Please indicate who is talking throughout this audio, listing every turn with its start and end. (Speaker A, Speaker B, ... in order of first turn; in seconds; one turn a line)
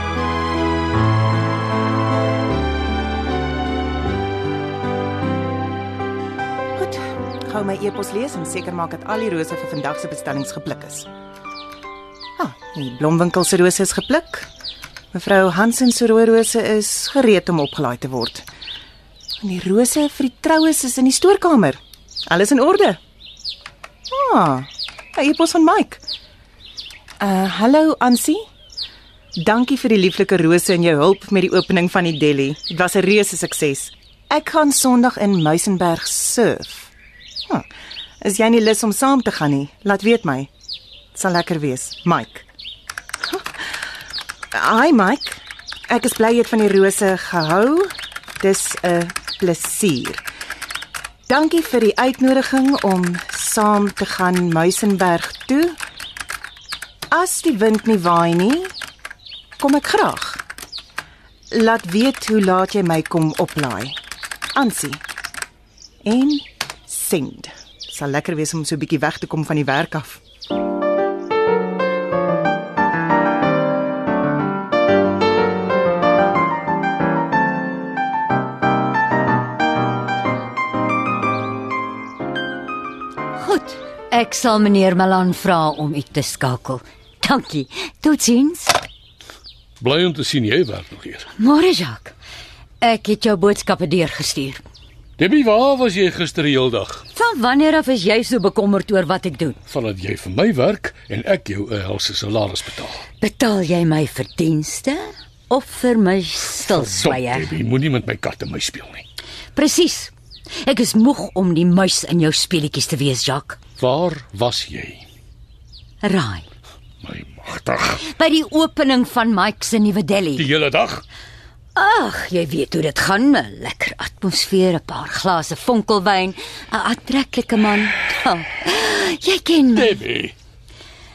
Speaker A: 6.8-11.1
Speaker A: 12.4-14.5
Speaker A: 15.1-18.5
Speaker A: 19.4-23.0
Speaker A: 24.1-26.0
Speaker A: 27.2-28.4
Speaker A: 29.4-36.9
Speaker A: 38.2-40.5
Speaker A: 41.1-42.5
Speaker A: 44.5-50.2
Speaker A: 51.3-55.8
Speaker A: 57.1-58.7
Speaker A: 59.6-60.4
Speaker A: 61.5-64.0
Speaker A: 64.5-65.0
Speaker A: 66.0-70.2
Speaker B: 83.4-88.8
Speaker C: 89.8-91.3
Speaker B: 91.4-92.1
Speaker B: 92.8-94.6
Speaker C: 95.2-97.0
Speaker B: 97.1-99.6
Speaker C: 99.7-103.0
Speaker B: 103.2-107.6
Speaker C: 106.7-109.0
Speaker B: 109.5-110.1
Speaker B: 110.6-113.6
Speaker C: 113.8-115.0
Speaker B: 116.0-116.5
Speaker C: 117.0-118.0
Speaker B: 118.0-120.5
Speaker C: 120.4-121.0
Speaker B: 121.8-130.0
Speaker C: 129.8-130.3